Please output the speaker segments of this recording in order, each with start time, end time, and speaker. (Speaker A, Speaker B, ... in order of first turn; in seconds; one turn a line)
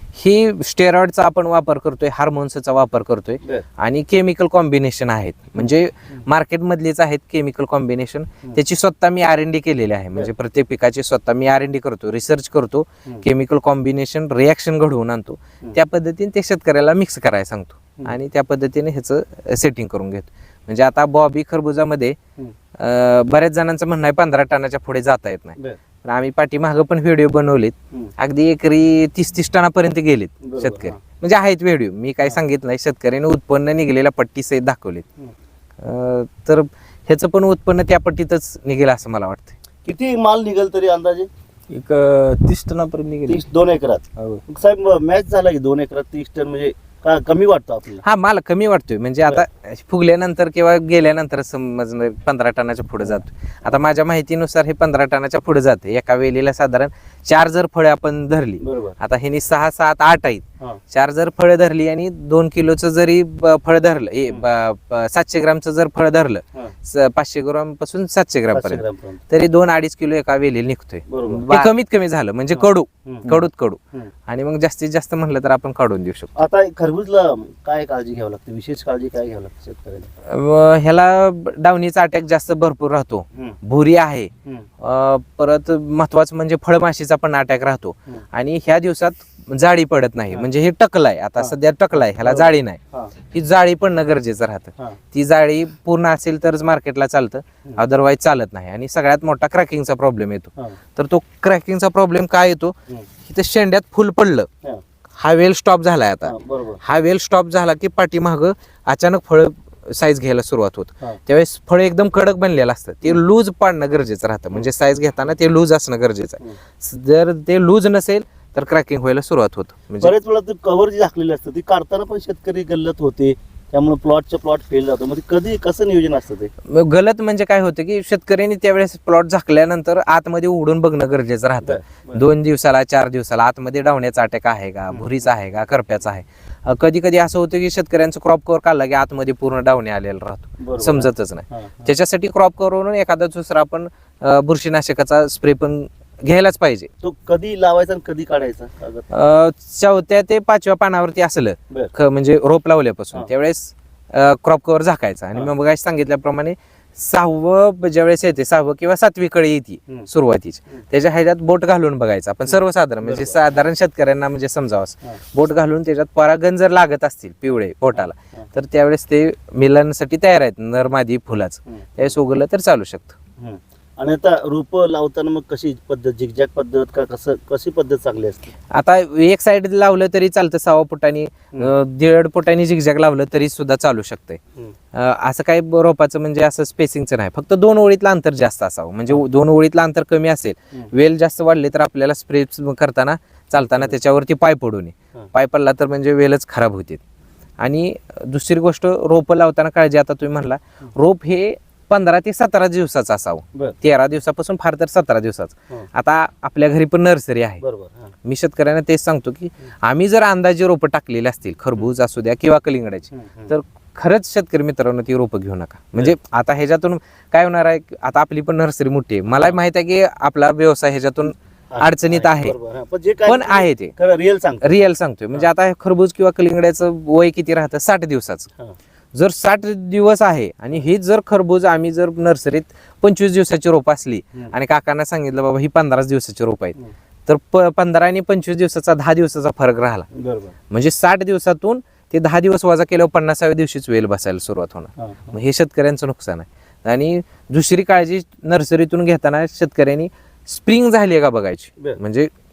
Speaker A: 0.1-22.2
Speaker A: 22.8-35.0
Speaker B: 30.4-31.0
Speaker A: 35.8-39.6
Speaker B: 39.9-41.3
Speaker C: 41.7-43.4
Speaker B: 43.3-48.0
Speaker C: 44.2-44.4
Speaker A: 48.0-76.4
Speaker B: 58.6-59.0
Speaker B: 68.5-69.2
Speaker B: 71.1-71.6
Speaker B: 72.5-73.3
Speaker B: 76.4-80.1
Speaker A: 80.3-92.8
Speaker B: 91.4-93.2
Speaker A: 93.3-104.5
Speaker A: 105.2-120.1
Speaker B: 106.2-106.8
Speaker B: 120.0-126.5
Speaker A: 126.7-146.9
Speaker B: 131.6-132.2
Speaker B: 134.9-135.2
Speaker B: 140.6-141.9
Speaker B: 147.0-149.1
Speaker A: 149.1-173.2
Speaker B: 162.5-163.4
Speaker B: 167.9-168.5
Speaker B: 171.7-172.2
Speaker B: 173.4-178.6
Speaker A: 178.7-184.4
Speaker A: 184.9-197.0
Speaker A: 197.6-207.6
Speaker B: 207.6-208.1
Speaker A: 208.2-222.6
Speaker B: 213.1-213.5
Speaker B: 219.3-219.6
Speaker B: 221.7-224.8
Speaker A: 223.3-223.9
Speaker A: 224.6-228.5
Speaker A: 229.1-236.8
Speaker A: 237.3-240.1
Speaker B: 240.1-240.6
Speaker A: 240.7-252.3
Speaker B: 245.0-245.4